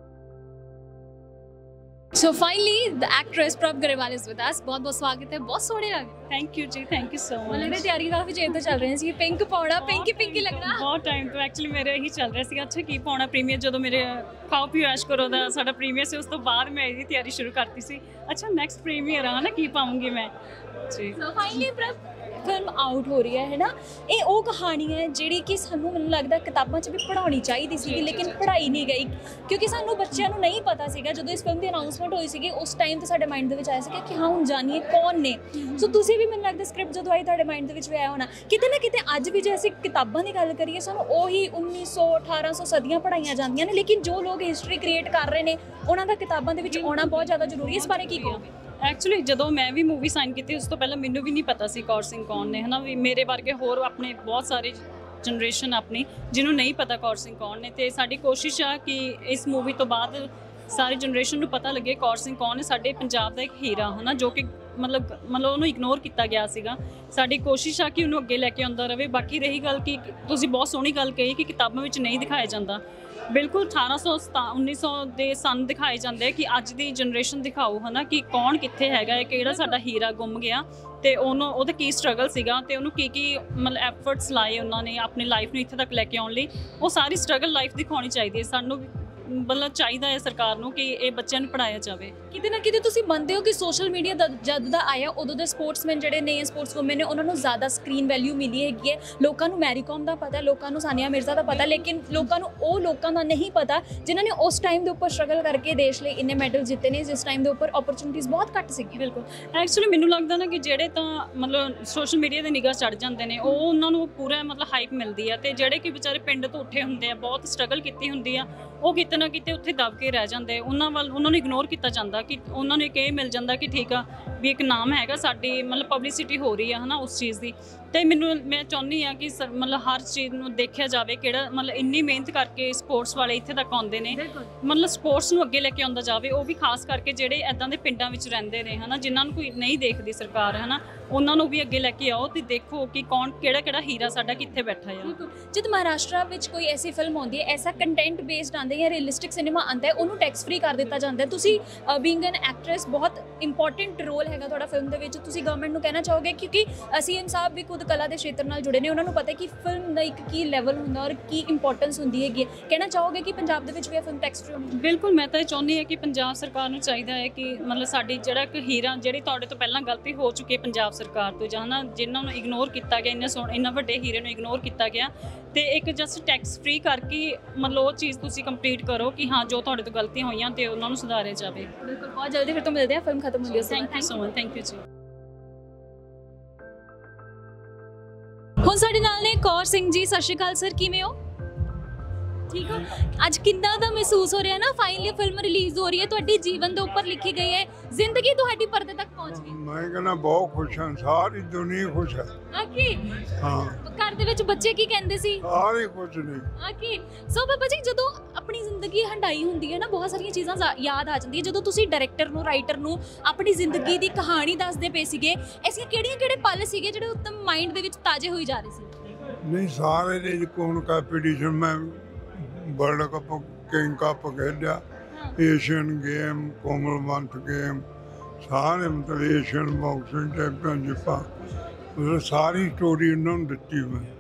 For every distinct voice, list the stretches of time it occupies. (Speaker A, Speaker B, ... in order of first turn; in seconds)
Speaker A: 2.1-6.2, 7.5-10.8, 21.2-48.5, 92.3-109.1, 145.0-164.7, 181.8-184.1, 188.6-191.2, 192.5-199.6, 202.5-203.2, 203.8-205.5, 206.6-218.9
Speaker B: 6.3-7.9, 8.5-8.9, 9.8-20.3, 20.9-21.2, 46.6-92.1, 109.0-145.1, 164.7-181.7, 183.6-184.8
Speaker C: 199.3-202.3, 203.4-203.8, 205.4-206.5, 219.4-224.8, 225.4-227.8, 228.4-231.3, 232.0-234.1